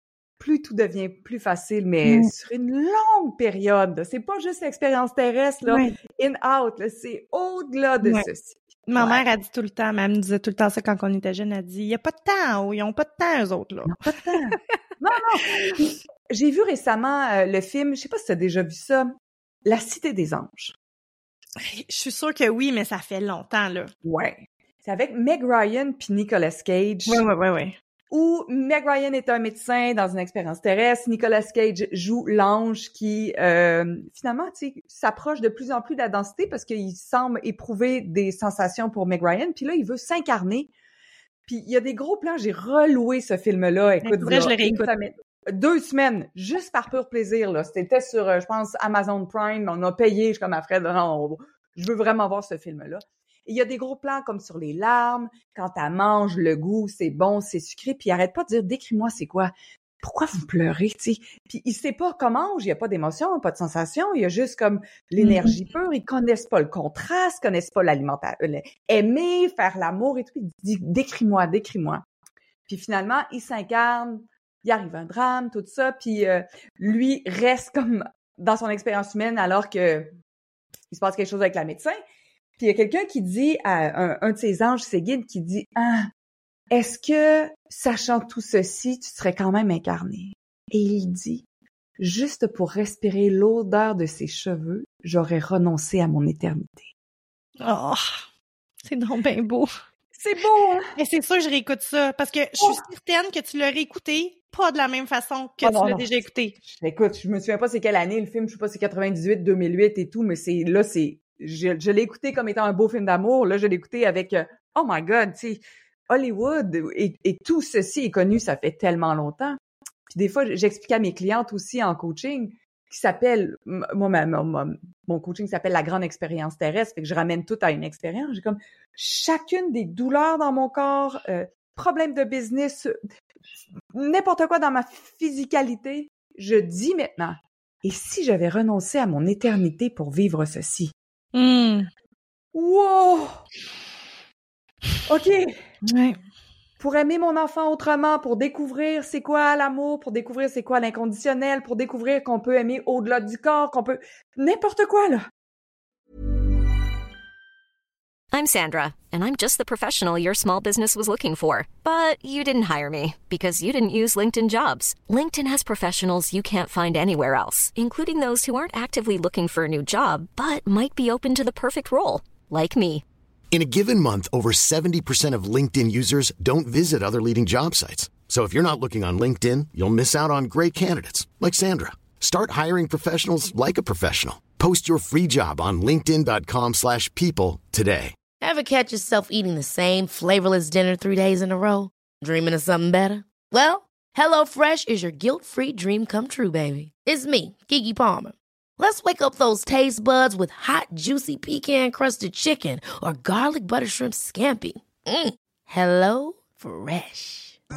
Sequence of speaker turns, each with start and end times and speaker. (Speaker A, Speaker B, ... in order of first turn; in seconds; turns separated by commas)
Speaker A: 0.4-9.2, Speaker B: 2.1-2.3, Speaker B: 5.7-5.9, Speaker B: 8.9-14.0, Speaker A: 13.9-20.8, Speaker B: 21.6-23.9, Speaker A: 24.0-27.2, Speaker B: 27.1-27.8, Speaker A: 28.1-40.7, Speaker A: 41.5-72.0, Speaker B: 44.0-44.9, Speaker B: 65.2-65.6, Speaker A: 72.7-80.1, Speaker A: 80.9-82.0, Speaker A: 82.6-86.1, Speaker A: 86.7-91.5, Speaker A: 92.0-96.9, Speaker B: 97.6-98.1, Speaker B: 98.8-99.7, Speaker A: 100.2-100.9, Speaker B: 101.0-106.6, Speaker A: 105.6-133.0, Speaker A: 133.9-140.9, Speaker B: 141.3-141.9, Speaker A: 142.5-143.4, Speaker A: 145.1-145.6, Speaker B: 145.8-146.2, Speaker A: 146.8-155.3, Speaker C: 158.3-173.0, Speaker D: 173.5-188.2, Speaker E: 188.4-207.6